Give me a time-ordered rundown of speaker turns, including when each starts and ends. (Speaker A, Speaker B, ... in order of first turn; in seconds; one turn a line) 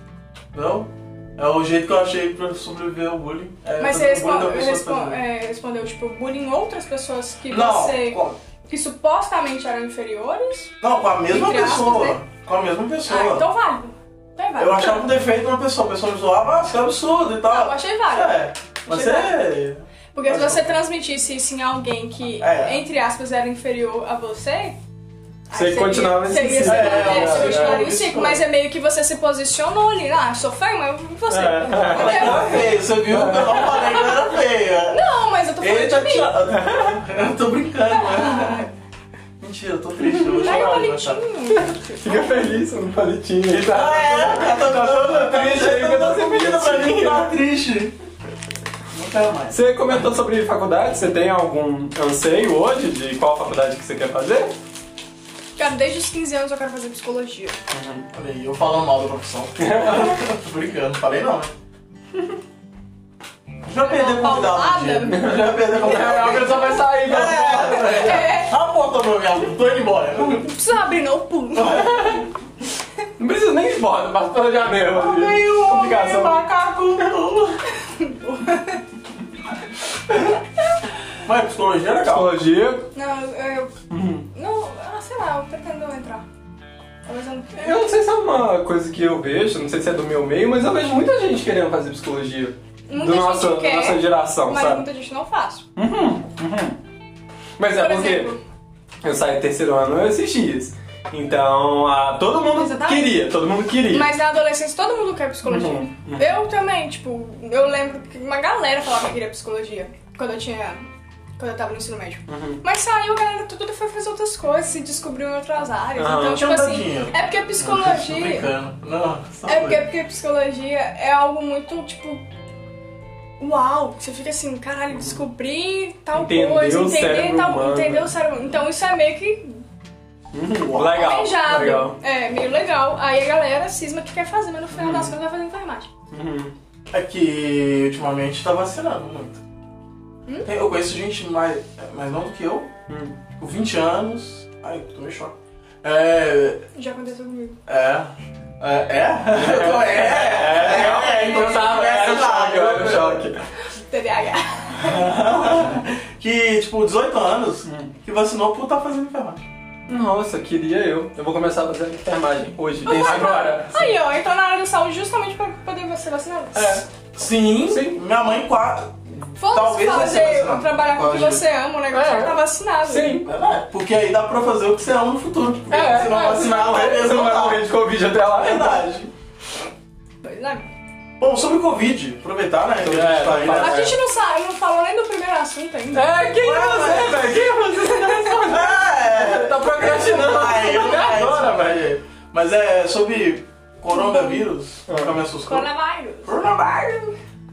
Speaker A: 0.5-5.2
Speaker B: 3.8-12.2
Speaker A: 7.5-8.4
Speaker A: 10.8-13.5
Speaker B: 13.1-15.1
Speaker A: 14.6-20.8
Speaker B: 17.5-19.5
Speaker B: 20.1-24.8
Speaker A: 22.4-22.8
Speaker B: 25.5-32.8
Speaker C: 25.5-27.9
Speaker A: 26.6-28.4
Speaker C: 31.3-33.8
Speaker A: 31.9-35.0
Speaker B: 33.5-34.3
Speaker B: 34.9-36.4
Speaker A: 35.6-38.7
Speaker C: 36.5-37.0
Speaker B: 37.9-38.7
Speaker A: 39.4-41.2
Speaker C: 40.0-40.9
Speaker B: 40.4-42.5
Speaker C: 41.5-47.3
Speaker A: 43.5-48.0
Speaker A: 48.9-50.0
Speaker C: 49.5-54.5
Speaker B: 55.6-57.6
Speaker C: 57.7-58.0
Speaker A: 58.1-61.5
Speaker C: 59.6-60.2
Speaker A: 63.6-70.5
Speaker B: 63.8-65.3
Speaker C: 65.1-68.3
Speaker B: 66.3-66.6
Speaker B: 67.6-68.5
Speaker B: 70.4-72.2
Speaker A: 71.6-72.2
Speaker C: 73.2-76.5
Speaker A: 74.9-77.6
Speaker B: 77.8-78.8
Speaker A: 81.2-82.4
Speaker C: 82.1-82.9
Speaker B: 82.9-83.7
Speaker C: 83.9-84.3
Speaker B: 84.3-86.3
Speaker B: 87.1-87.9
Speaker C: 87.6-94.8
Speaker B: 92.9-95.7
Speaker C: 95.8-96.8
Speaker C: 97.6-98.3
Speaker B: 97.7-98.4
Speaker C: 99.0-104.1
Speaker B: 102.5-103.2
Speaker B: 103.9-118.5
Speaker C: 105.5-106.4
Speaker C: 112.3-112.6
Speaker C: 116.0-116.5
Speaker A: 116.3-119.8
Speaker B: 119.5-122.2
Speaker B: 123.4-129.6
Speaker C: 124.9-125.2
Speaker C: 126.1-128.1
Speaker C: 130.3-132.0
Speaker A: 130.6-131.0
Speaker B: 130.8-135.9
Speaker C: 134.7-135.1
Speaker C: 136.1-136.5
Speaker A: 136.9-139.4
Speaker A: 140.4-142.7
Speaker C: 142.9-143.2
Speaker A: 143.3-146.6
Speaker B: 146.7-147.6
Speaker A: 147.7-153.3
Speaker C: 149.3-153.4
Speaker B: 153.7-155.2
Speaker A: 154.8-159.4
Speaker C: 157.7-157.9
Speaker C: 159.9-164.0
Speaker B: 162.8-166.8
Speaker C: 166.6-166.8
Speaker A: 167.1-171.4
Speaker C: 167.7-168.0
Speaker B: 169.4-173.2
Speaker C: 171.9-173.3
Speaker A: 173.2-177.7
Speaker C: 175.7-178.8
Speaker A: 178.3-179.1
Speaker B: 180.2-180.7
Speaker A: 181.2-183.9
Speaker C: 182.8-184.0
Speaker B: 183.5-186.3
Speaker C: 185.9-191.9
Speaker A: 186.3-187.4
Speaker B: 187.2-188.6
Speaker A: 188.4-195.7
Speaker B: 193.9-194.4
Speaker C: 194.9-195.2
Speaker B: 195.4-196.3
Speaker A: 196.2-197.2